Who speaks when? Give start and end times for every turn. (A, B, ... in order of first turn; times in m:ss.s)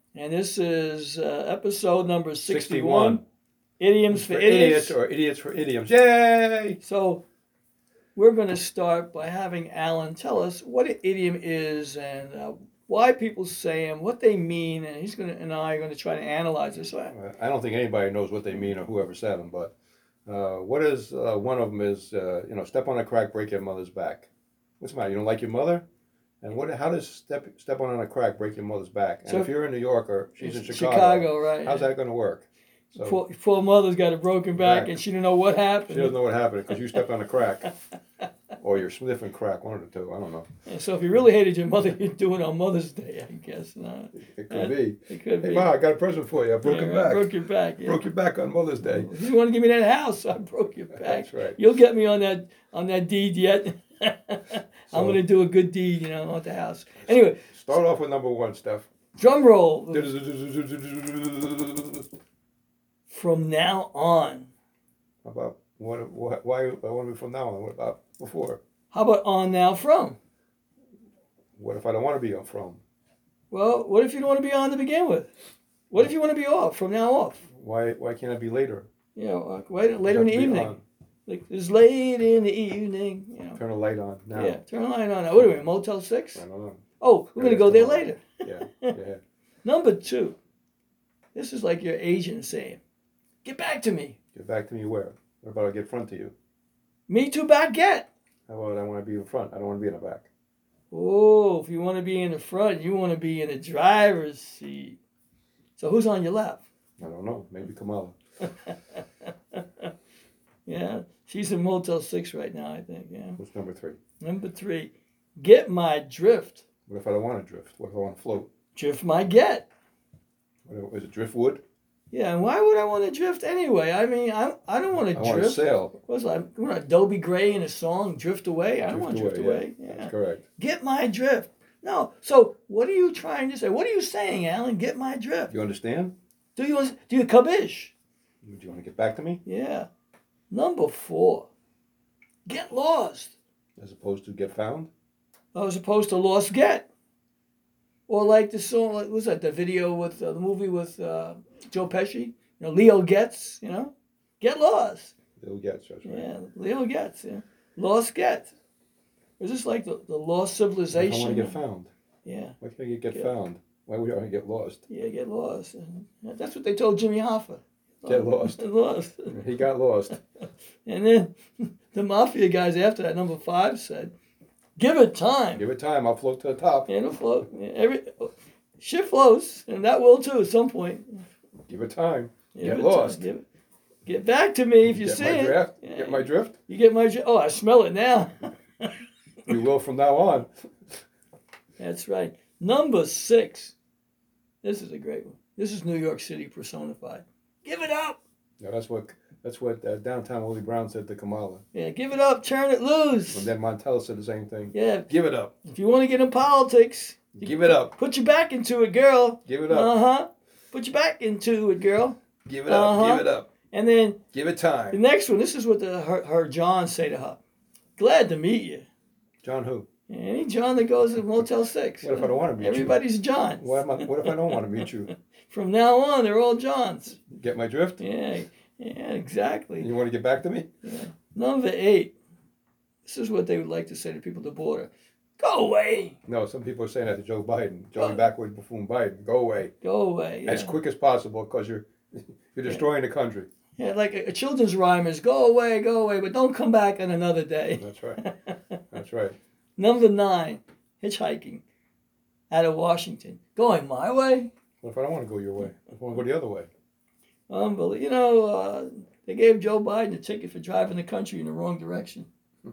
0:00.2-0:03.2 A
0:02.4-0:03.2 B
0:03.8-0:05.0 A
0:04.1-0:06.8 B
0:06.8-0:07.2 A
0:08.2-0:17.1 A
0:17.0-0:19.7 B
0:20.3-0:24.3 B
0:24.8-0:25.8 B
0:26.4-0:33.2 B
0:29.2-0:29.5 A
0:30.4-0:31.9 A
0:32.9-0:36.2 A
0:34.5-0:35.0 B
0:35.9-0:37.7 B
0:38.6-0:40.5 B
0:40.7-0:45.7 A
0:44.2-0:49.1 B
0:46.6-0:48.0 A
0:48.8-0:57.4 A
0:50.9-0:51.6 B
0:54.9-0:55.2 B
0:57.0-0:58.9 B
0:59.2-1:00.1 A
0:59.9-1:02.0 B
1:03.1-1:04.5 A
1:05.2-1:08.6 B
1:08.9-1:10.2 A
1:11.6-1:12.8 B
1:13.5-1:15.3 A
1:15.9-1:17.4 A
1:17.5-1:18.9 B
1:19.2-1:20.8 A
1:20.1-1:20.8 B
1:21.3-1:23.6 A
1:23.6-1:24.6 B
1:24.3-1:26.4 A
1:25.3-1:25.6 B
1:26.4-1:26.8 B
1:27.0-1:29.0 A
1:27.4-1:29.2 B
1:29.6-1:30.4 A
1:31.4-1:32.8 A
1:33.4-1:34.2 A
1:34.3-1:36.3 B
1:37.1-1:38.1 A
1:38.5-1:40.3 B
1:40.9-1:45.0 A
1:45.8-1:46.6 A
1:47.0-1:48.2 B
1:48.4-1:49.0 A
1:49.5-1:49.9 A
1:50.7-1:53.4 A
1:53.4-1:54.0 B
1:54.2-1:56.6 A
1:56.9-1:58.5 B
1:58.8-1:59.7 A
2:00.7-2:01.6 B
2:02.1-2:15.5 A
2:05.1-2:06.0 B
2:08.9-2:10.4 B
2:15.5-2:16.2 B
2:16.6-2:17.9 A
2:18.4-2:19.4 B
2:19.4-2:19.9 A
2:20.5-2:21.5 A
2:22.5-2:23.3 A
2:23.8-2:24.9 B
2:25.5-2:26.9 A
2:28.1-2:35.1 A
2:35.4-2:36.3 B
2:36.0-2:38.5 A
2:39.4-2:41.6 A
2:40.9-2:41.9 B
2:42.2-2:42.6 A
2:42.6-2:44.8 B
2:44.9-2:49.4 A
2:48.1-2:48.6 B
2:49.3-2:50.2 B
2:50.9-2:54.1 A
2:54.8-2:55.6 A
2:55.6-2:56.9 B
2:56.9-3:01.2 A
3:01.7-3:03.3 B
3:02.5-3:03.4 A
3:04.1-3:08.9 A
3:04.8-3:06.6 B
3:09.5-3:10.5 B
3:11.8-3:13.8 A
3:14.6-3:18.2 A
3:18.6-3:21.6 B
3:21.7-3:23.5 A
3:23.3-3:25.5 B
3:24.7-3:25.1 A
3:25.7-3:34.2 A
3:27.4-3:27.9 B
3:29.5-3:29.9 B
3:32.5-3:33.5 B
3:34.3-3:35.0 B
3:34.9-3:37.4 A
3:38.0-3:38.9 A
3:39.4-3:39.9 B
3:40.1-3:47.2 A
3:42.0-3:43.0 B
3:43.6-3:45.1 B
3:47.3-3:48.0 B
3:48.0-3:49.9 A
3:49.8-3:50.7 B
3:50.8-3:52.1 A
3:53.0-3:56.2 A
3:56.2-3:59.7 B
3:58.0-3:58.2 A
3:59.8-4:00.7 A
4:00.5-4:03.5 B
4:03.8-4:08.8 A
4:07.8-4:08.2 B
4:08.9-4:09.4 B
4:09.8-4:11.6 A
4:12.5-4:14.5 A
4:14.8-4:16.7 B
4:17.5-4:22.3 A